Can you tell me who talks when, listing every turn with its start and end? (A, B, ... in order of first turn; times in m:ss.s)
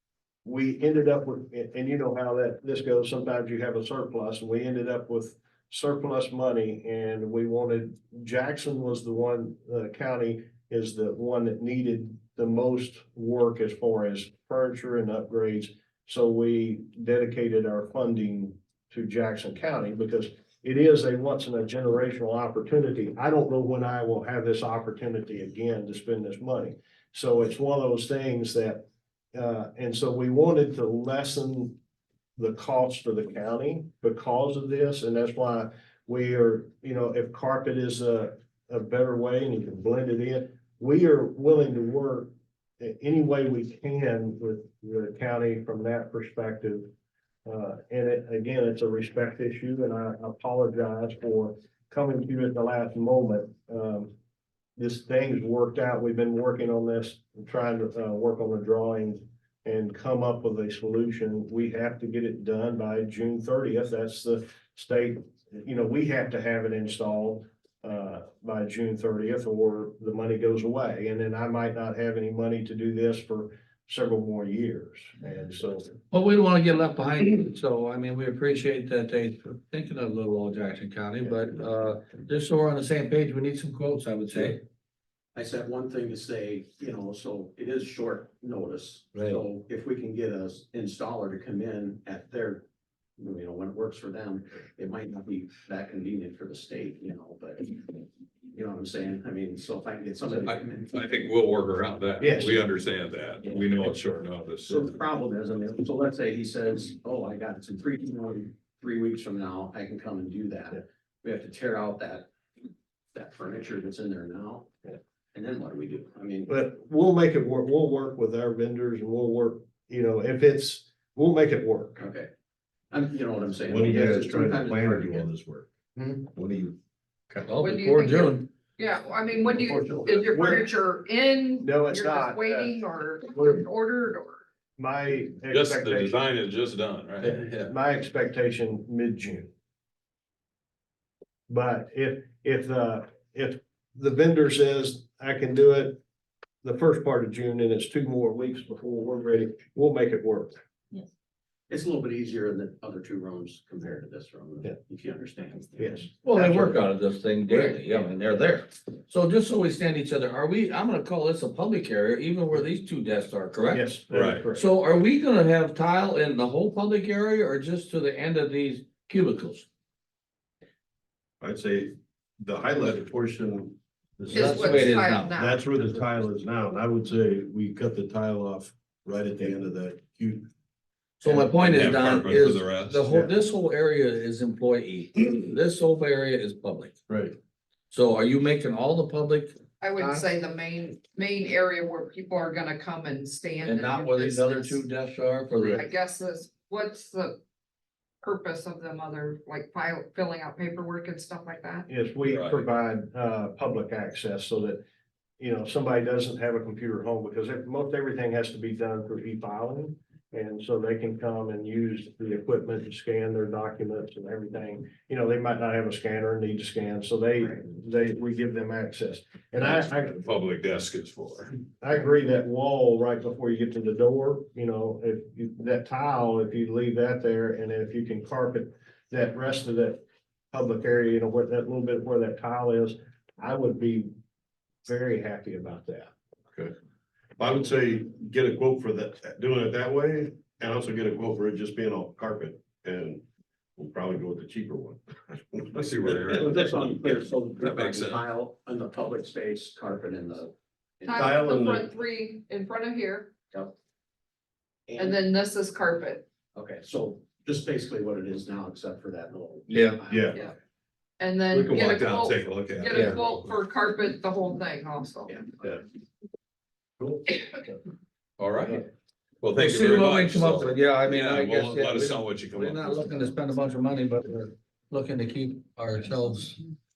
0:00.4-0:31.8 A
0:32.4-0:46.9 A
0:47.4-0:54.1 A
0:54.8-1:15.9 A
1:16.1-1:24.6 B
1:25.3-1:32.6 C
1:29.1-1:29.4 B
1:33.2-1:41.0 C
1:40.3-1:45.0 D
1:42.2-1:42.6 A
1:43.4-1:44.0 C
1:44.7-1:52.3 C
1:53.1-1:54.7 C
1:55.3-1:56.5 C
1:56.5-2:02.0 A
2:02.0-2:02.3 C
2:02.9-2:05.3 C
2:03.7-2:05.7 E
2:05.9-2:06.3 C
2:06.3-2:06.7 E
2:07.4-2:08.4 B
2:07.6-2:14.4 F
2:09.5-2:10.2 E
2:10.1-2:10.6 A
2:11.6-2:12.7 A
2:13.3-2:13.6 A
2:14.8-2:16.2 A
2:15.5-2:17.7 D
2:17.2-2:19.5 A
2:21.5-2:26.0 A
2:26.6-2:30.6 A
2:31.7-2:36.1 C
2:35.8-2:36.8 A
2:36.2-2:49.6 B
2:37.5-2:38.3 C
2:43.7-2:44.6 A
2:44.1-2:44.4 D
2:51.4-3:00.5 E
2:54.3-2:55.4 B
2:54.3-2:55.6 F
3:01.2-3:07.0 B
3:01.2-3:01.6 E
3:01.6-3:03.1 D
3:07.1-3:07.4 E
3:07.9-3:09.5 B
3:09.8-3:14.8 F
3:13.6-3:15.8 B
3:15.7-3:17.4 F
3:18.2-3:21.9 F
3:21.9-3:24.8 A
3:22.2-3:22.6 D
3:25.4-3:40.2 A
3:40.1-3:41.5 D
3:41.8-3:50.0 A
3:50.5-3:54.1 A
3:54.8-3:56.1 A
3:57.4-4:03.2 E
4:03.8-4:05.7 E
4:05.7-4:08.2 D
4:06.1-4:11.3 C
4:11.0-4:13.3 F
4:11.2-4:11.9 E
4:14.9-4:15.2 C
4:15.0-4:16.2 F
4:16.5-4:20.5 C
4:19.7-4:20.0 B
4:20.1-4:20.4 E
4:21.2-4:25.4 F
4:21.7-4:23.5 D
4:22.8-4:23.2 B
4:25.3-4:25.8 C
4:28.4-4:28.8 D
4:28.4-4:28.8 B
4:29.4-4:33.2 D
4:29.5-4:36.6 B